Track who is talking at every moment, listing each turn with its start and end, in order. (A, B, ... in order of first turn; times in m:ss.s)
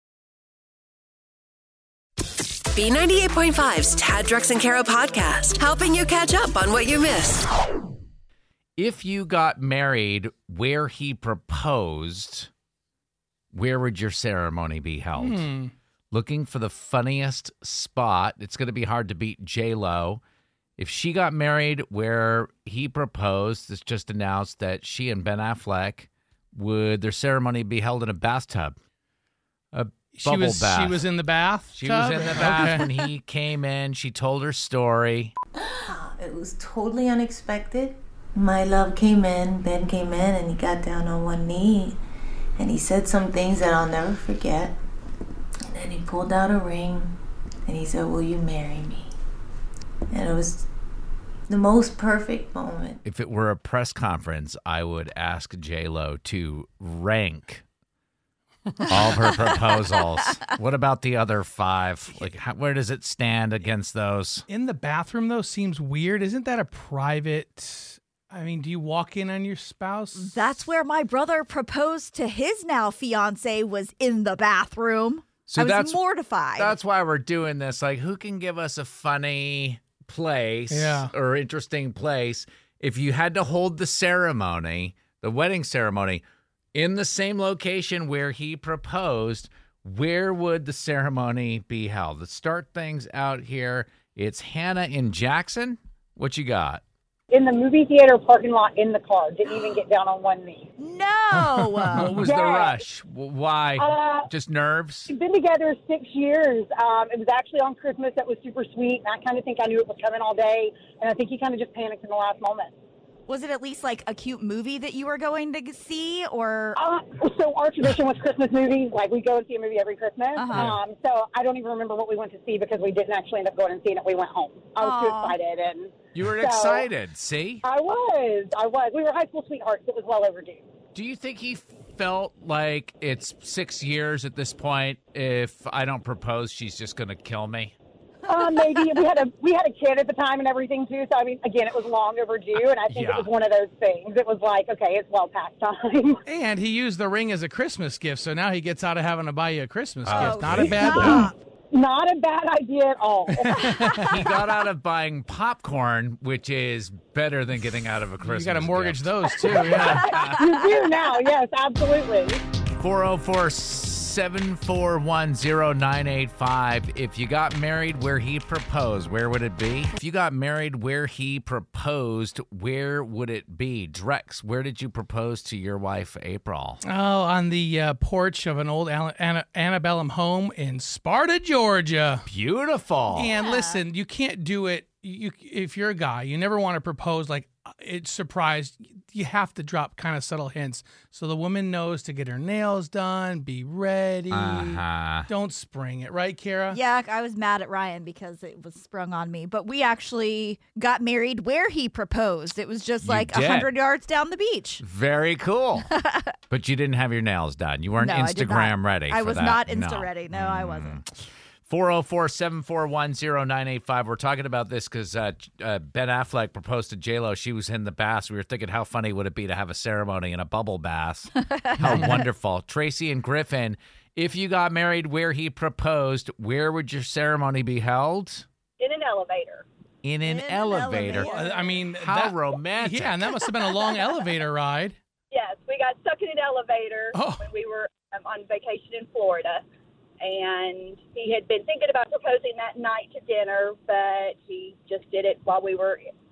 0:02.7-0:07.5 A
0:08.8-0:12.5 B
0:13.5-0:15.4 B
0:15.2-0:15.7 C
0:16.1-0:20.2 B
0:20.8-0:28.8 B
0:29.7-0:31.0 B
0:30.1-0:32.9 C
0:31.7-0:35.3 B
0:35.6-0:42.0 D
0:42.6-0:44.8 D
0:45.7-0:47.1 D
0:47.6-0:49.1 D
0:50.1-0:50.7 D
0:51.5-0:53.0 D
0:53.0-0:57.6 B
0:58.9-1:04.4 B
1:04.5-1:10.6 C
1:10.1-1:16.7 E
1:15.5-1:16.0 B
1:16.6-1:26.2 B
1:20.7-1:21.1 C
1:26.7-1:36.8 B
1:37.3-1:40.7 F
1:40.8-1:42.1 E
1:41.4-1:42.3 C
1:41.9-1:45.1 B
1:42.2-1:42.8 F
1:43.8-1:44.3 F
1:45.1-1:52.7 F
1:53.3-1:56.8 E
1:56.8-2:06.9 F
2:00.4-2:00.7 E
2:00.5-2:00.8 B
2:04.8-2:05.4 E
2:06.1-2:07.6 B
2:07.6-2:10.6 F
2:10.9-2:17.7 B
2:18.2-2:26.2 F
2:22.9-2:23.3 B
2:26.2-2:31.3 C
2:30.0-2:31.2 B
2:30.1-2:31.3 E
2:31.7-2:33.9 F
2:33.4-2:34.3 C
2:33.7-2:34.0 E
2:34.1-2:40.6 B
2:38.2-2:40.1 C
2:40.0-2:42.4 F
2:42.7-2:56.8 B
2:56.8-3:02.2 C
3:02.3-3:03.3 B
3:03.1-3:16.8 C
3:03.3-3:03.8 E
3:14.3-3:15.3 B
3:16.7-3:24.8 E
3:23.0-3:23.7 B
3:24.8-3:25.9 B
3:25.9-3:26.4 E
3:26.5-3:31.1 B
3:28.0-3:31.0 E
3:31.6-3:48.4 B
3:41.5-3:42.0 E
3:41.8-3:42.2 C
3:48.8-3:49.6 G
3:50.0-3:51.4 B
3:50.2-3:51.8 E
3:51.0-3:55.0 C
3:52.0-3:53.3 B
3:55.3-3:59.6 G
3:57.1-3:57.5 C
4:00.2-4:06.1 G